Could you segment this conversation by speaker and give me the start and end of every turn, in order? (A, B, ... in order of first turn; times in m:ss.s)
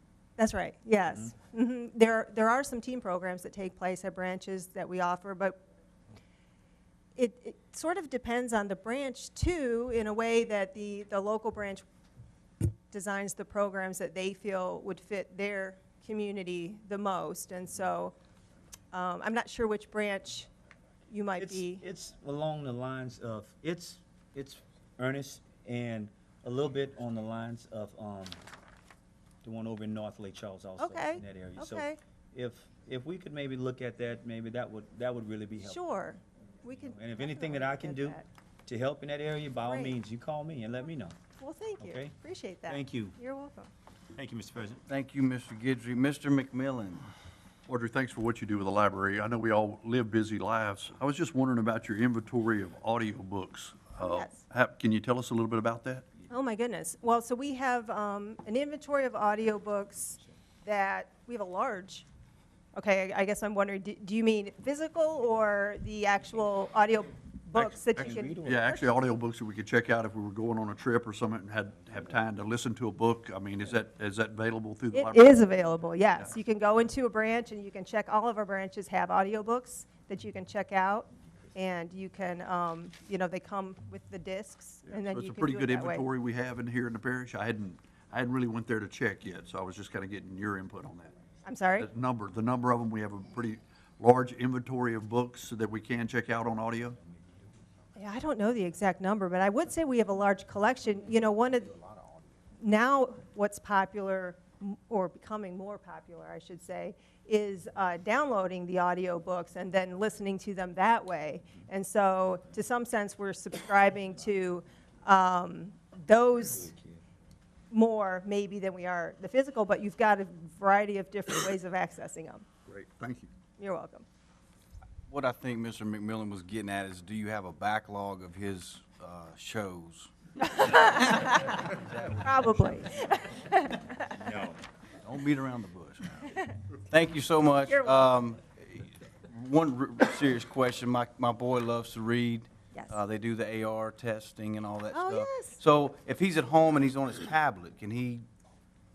0:00.4-0:05.6 A
0:07.2-0:11.8 A
0:12.9-0:18.1 A
0:18.9-0:20.5 A
0:21.1-0:21.8 A
0:21.4-0:28.4 B
0:29.4-0:35.8 B
0:30.8-0:32.0 A
0:35.6-0:38.3 A
0:36.9-0:41.2 B
0:39.6-0:40.0 A
0:41.4-0:43.7 A
0:41.8-0:42.1 B
0:42.7-0:43.1 B
0:44.1-0:44.8 B
0:44.9-0:47.0 C
0:47.7-0:56.0 D
0:54.0-0:54.4 A
0:56.3-1:02.0 A
1:02.7-1:08.8 A
1:07.6-1:15.4 D
1:08.0-1:08.6 B
1:14.9-1:26.0 A
1:24.9-1:31.1 D
1:31.4-1:31.9 A
1:31.8-1:37.0 D
1:38.0-1:41.8 A
1:42.6-1:56.7 A
1:57.7-2:02.4 A
2:02.7-2:03.3 D
2:03.6-2:04.0 A
2:05.1-2:12.5 C
2:10.4-2:14.2 A
2:14.1-2:14.6 B
2:15.0-2:16.2 C
2:16.9-2:28.2 C
2:17.7-2:18.0 A
2:24.9-2:25.6 A